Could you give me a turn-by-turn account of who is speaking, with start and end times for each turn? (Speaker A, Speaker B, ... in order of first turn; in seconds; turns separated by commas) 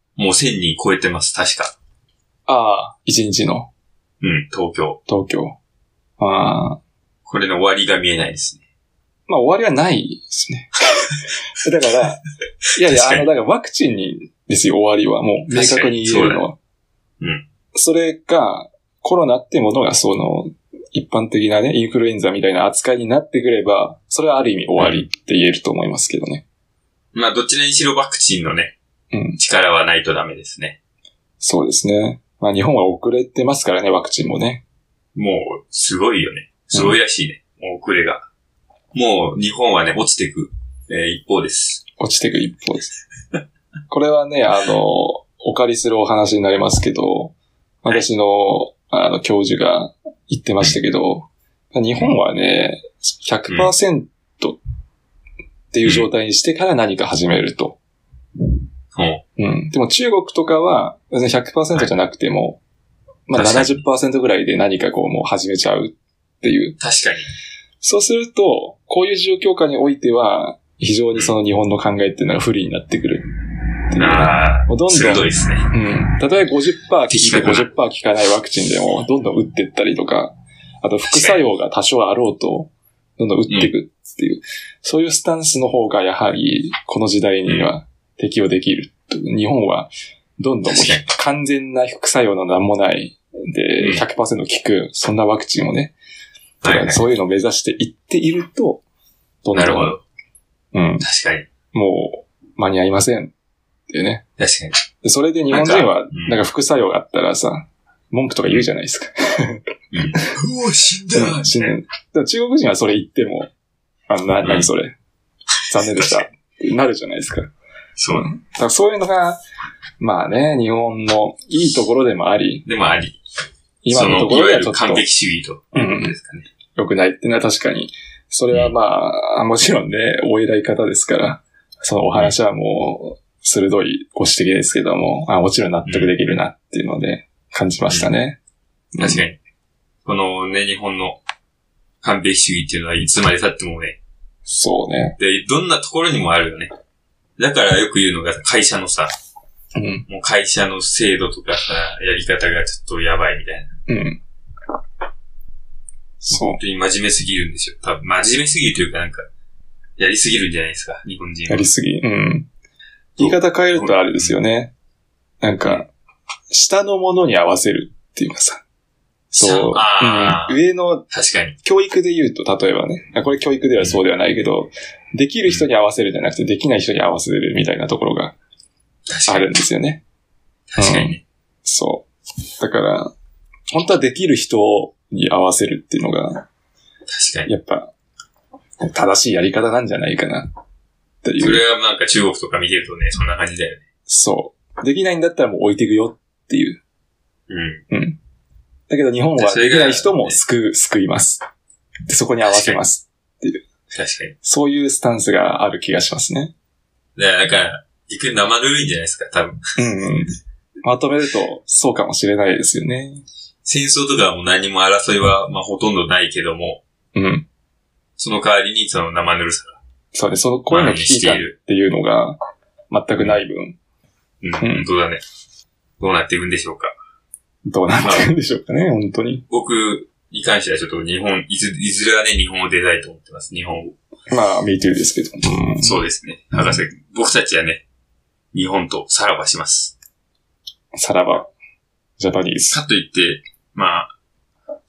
Speaker A: 0.2-1.7, Speaker B: 2.5-3.7, Speaker A: 4.2-5.0, Speaker B: 5.1-5.6, Speaker B: 6.2-6.8, Speaker A: 7.2-8.6, Speaker B: 9.3-10.8, Speaker B: 11.5-12.2, Speaker B: 12.7-16.6, Speaker A: 12.8-13.3, Speaker A: 15.5-16.4, Speaker B: 17.7-26.4, Speaker A: 24.8-25.1, Speaker A: 27.1-28.7, Speaker B: 29.1-29.4, Speaker A: 29.4-30.8, Speaker B: 31.4-34.6, Speaker A: 35.1-38.2, Speaker A: 38.9-41.8, Speaker B: 42.0-42.9, Speaker B: 43.9-54.6, Speaker B: 55.7-57.8, Speaker A: 58.9-59.2, Speaker B: 59.4-62.6, Speaker B: 63.3-66.8, Speaker A: 63.4-63.8, Speaker A: 66.8-67.3, Speaker B: 67.8-73.2, Speaker B: 73.9-95.9, Speaker A: 74.0-75.7, Speaker A: 77.1-77.7, Speaker A: 81.1-81.4, Speaker A: 87.5-87.7, Speaker A: 90.7-91.0, Speaker A: 93.8-94.0, Speaker A: 96.6-97.0, Speaker B: 96.6-98.8, Speaker B: 99.4-100.0, Speaker A: 99.5-100.0, Speaker B: 100.7-101.0, Speaker A: 101.0-101.5, Speaker B: 101.7-103.3, Speaker B: 103.9-104.2, Speaker A: 104.4-104.8, Speaker B: 105.0-110.3, Speaker A: 105.5-106.4, Speaker A: 109.9-111.8, Speaker B: 111.1-113.5, Speaker B: 114.1-114.9, Speaker A: 114.4-114.7, Speaker B: 115.7-117.5, Speaker A: 115.7-116.3, Speaker A: 118.0-118.3, Speaker B: 118.1-119.4, Speaker B: 120.0-122.7, Speaker A: 122.7-123.2, Speaker B: 123.8-125.1, Speaker A: 123.9-126.5, Speaker B: 125.7-126.1, Speaker B: 126.7-138.4, Speaker A: 135.8-136.1, Speaker B: 138.9-139.2, Speaker A: 139.0-139.4, Speaker A: 140.0-141.2, Speaker A: 142.0-144.0, Speaker B: 144.5-145.1, Speaker A: 145.2-146.7, Speaker A: 147.4-149.1, Speaker B: 149.8-150.0, Speaker A: 150.1-153.7, Speaker B: 153.9-154.2, Speaker B: 156.2-156.6, Speaker A: 156.3-159.2, Speaker A: 160.0-161.7, Speaker B: 161.5-162.5, Speaker A: 163.2-164.3, Speaker B: 163.2-164.7, Speaker B: 165.4-165.9, Speaker B: 166.5-168.6, Speaker B: 169.3-171.0, Speaker A: 169.4-170.6, Speaker A: 171.1-171.6, Speaker B: 171.6-178.3, Speaker A: 179.1-179.5, Speaker B: 179.3-180.0, Speaker A: 180.7-181.2, Speaker B: 180.8-182.1, Speaker B: 182.6-183.1, Speaker B: 183.7-186.4, Speaker A: 187.1-187.5, Speaker B: 187.4-187.9, Speaker B: 188.8-190.5, Speaker B: 191.2-191.6, Speaker A: 191.4-193.8, Speaker B: 194.1-196.8, Speaker A: 197.5-197.8, Speaker B: 197.9-198.2, Speaker B: 198.9-201.4, Speaker A: 199.4-200.4, Speaker B: 202.1-203.6, Speaker A: 202.4-202.8, Speaker A: 203.9-204.3, Speaker B: 204.4-206.5, Speaker A: 207.2-209.6, Speaker B: 209.8-213.2, Speaker A: 213.6-216.8, Speaker B: 217.1-217.4, Speaker A: 218.2-219.8, Speaker B: 220.1-222.4, Speaker A: 220.7-221.5, Speaker B: 222.9-223.8, Speaker A: 224.4-225.2, Speaker B: 224.6-224.9, Speaker A: 226.0-226.9, Speaker B: 227.7-229.4, Speaker A: 227.9-228.3, Speaker A: 229.5-233.9, Speaker B: 234.3-236.0, Speaker A: 235.8-237.8, Speaker A: 238.5-239.9, Speaker B: 240.9-241.5, Speaker B: 242.2-242.8, Speaker A: 242.7-244.1